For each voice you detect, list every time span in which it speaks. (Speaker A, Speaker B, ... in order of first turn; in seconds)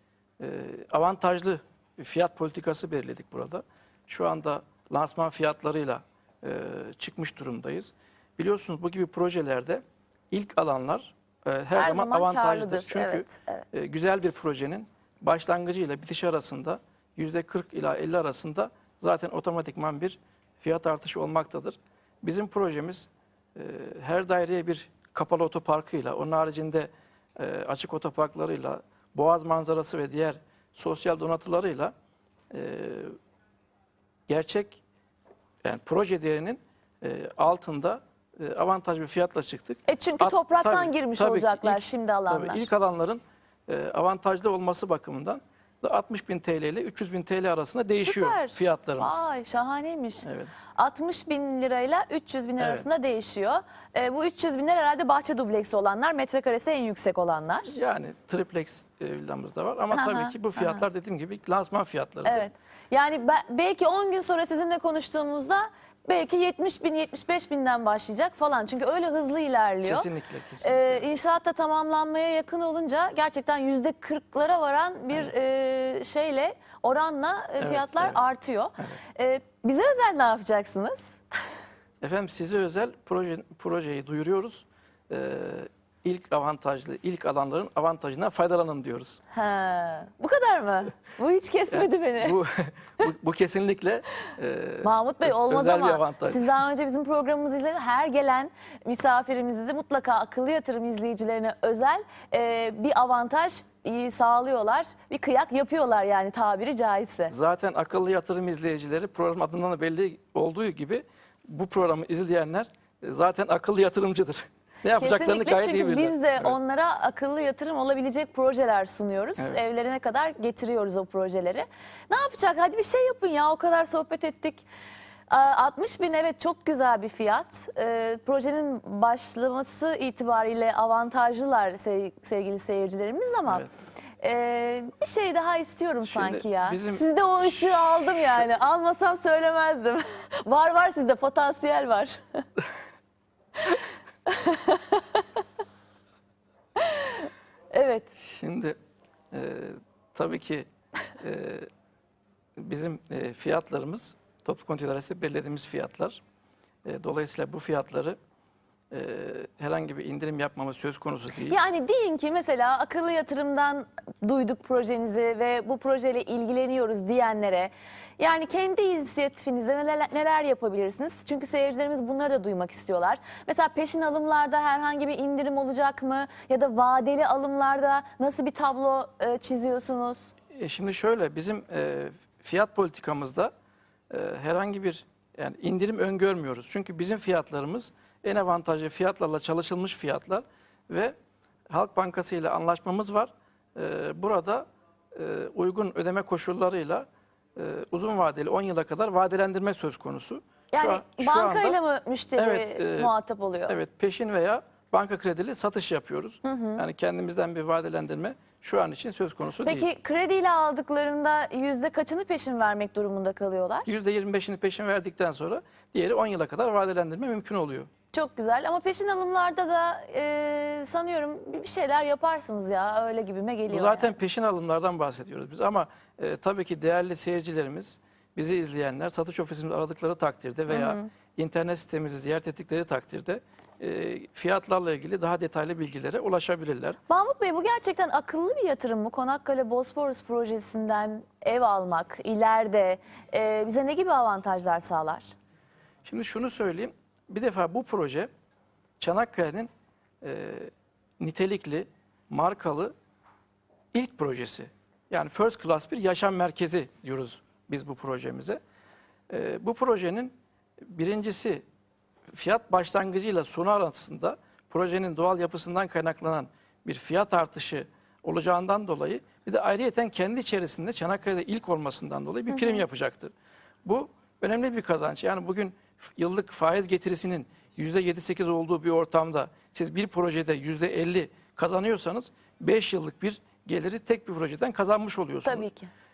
Speaker A: 0.4-31.9, 32.5-33.2, 34.3-34.8, 35.6-49.3, 50.2-50.5, 52.6-52.9, 57.7-62.5, 69.8-71.1, 77.6-78.2, 82.0-89.2, 91.7-96.5, 107.3-116.6, 136.1-138.5, 148.2-148.8, 149.3-150.7, 151.2-151.7, 152.6-156.2, 156.8-158.2, 158.9-161.6, 180.5-183.5, 184.1-191.2, 191.7-201.8, 202.4-203.1, 203.7-209.9, 213.9-217.9, 223.7-237.0, 246.1-248.3, 249.0-249.7, 250.2-252.9, 253.9-258.6, 259.3-261.6, 262.3-273.3, 273.9-285.7
Speaker B: 11.8-13.7, 39.9-42.7, 48.0-57.8, 59.9-60.9, 62.2-70.1, 70.6-81.1, 89.3-92.4, 94.8-107.3, 115.0-124.7, 125.3-133.7, 134.2-142.4, 144.3-145.4, 146.8-148.1, 161.4-180.2, 200.7-203.8, 206.4-206.8, 209.6-213.9, 218.1-224.1, 230.7-231.1, 237.1-245.3, 272.5-272.8, 285.4-285.9